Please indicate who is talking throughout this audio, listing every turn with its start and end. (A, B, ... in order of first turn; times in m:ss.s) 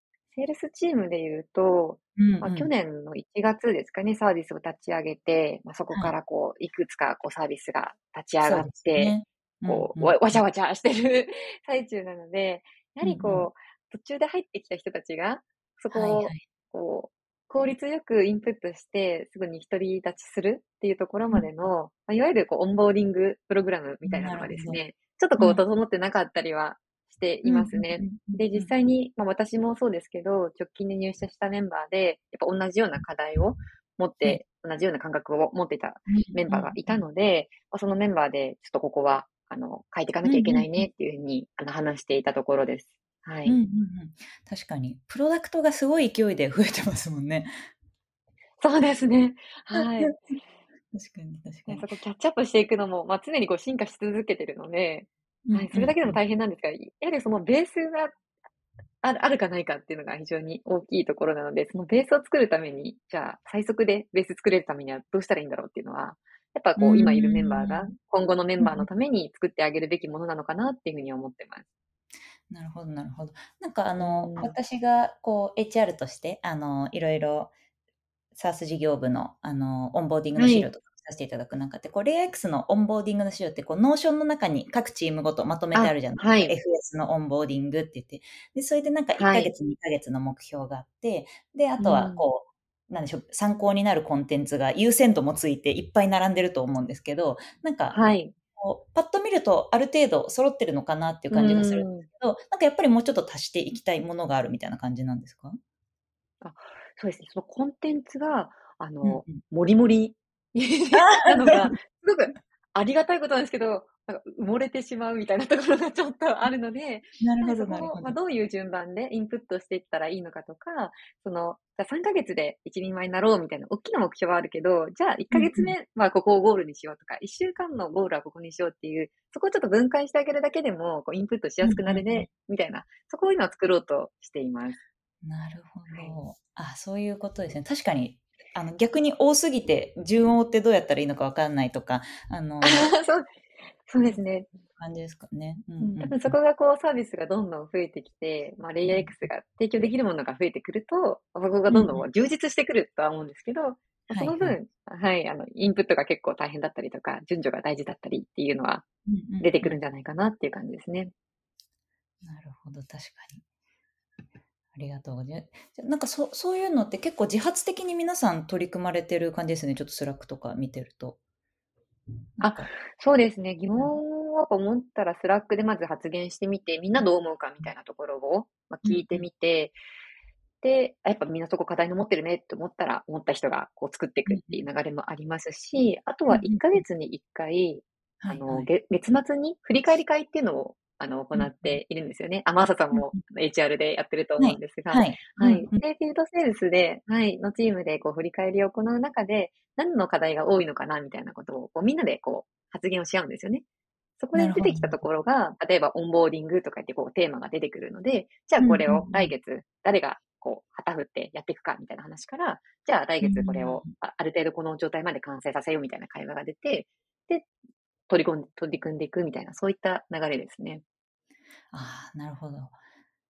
0:00.3-0:09.1 A
0:02.2-0:02.7 B
0:08.4-0:10.4 B
0:09.6-0:43.6 A
0:13.0-0:13.5 B
0:15.9-0:16.4 B
0:24.0-0:24.8 B
0:25.4-0:25.6 B
0:27.4-0:28.7 B
0:36.1-0:37.0 B
0:40.2-0:40.8 B
0:43.4-0:47.5 B
0:48.6-0:50.2 A
0:49.7-0:50.3 B
0:50.9-0:51.9 B
0:51.7-0:58.1 A
0:55.4-0:56.2 B
0:59.0-1:11.6 A
1:06.8-1:07.9 B
1:08.6-1:08.9 B
1:12.5-1:17.5 B
1:14.0-1:14.5 A
1:18.3-1:38.0 B
1:20.4-1:20.7 A
1:25.7-1:26.5 A
1:29.2-1:29.5 A
1:31.8-1:32.2 A
1:37.9-1:38.3 A
1:38.6-1:45.6 B
1:41.3-1:42.1 A
1:46.4-2:14.8 A
1:49.0-1:49.4 B
1:50.9-1:51.7 B
1:57.2-1:58.1 B
2:05.3-2:05.7 B
2:11.6-2:12.3 B
2:15.2-2:22.9 B
2:15.9-2:16.2 A
2:22.6-2:23.3 A
2:23.8-2:24.5 A
2:24.8-2:26.4 B
2:25.8-2:38.8 A
2:31.7-2:32.0 B
2:34.1-2:34.6 B
2:39.0-2:39.8 B
2:39.4-2:41.1 A
2:42.2-2:43.4 B
2:44.7-2:51.2 B
2:52.4-2:52.7 B
2:52.4-2:59.8 A
2:58.8-2:59.2 B
3:00.6-3:23.6 A
3:04.3-3:04.6 B
3:06.3-3:06.8 B
3:08.2-3:08.7 B
3:11.3-3:11.8 B
3:14.4-3:15.8 B
3:24.2-3:37.5 A
3:24.3-3:25.0 B
3:28.6-3:29.3 B
3:33.2-3:33.9 B
3:38.1-3:40.8 A
3:41.7-3:42.7 B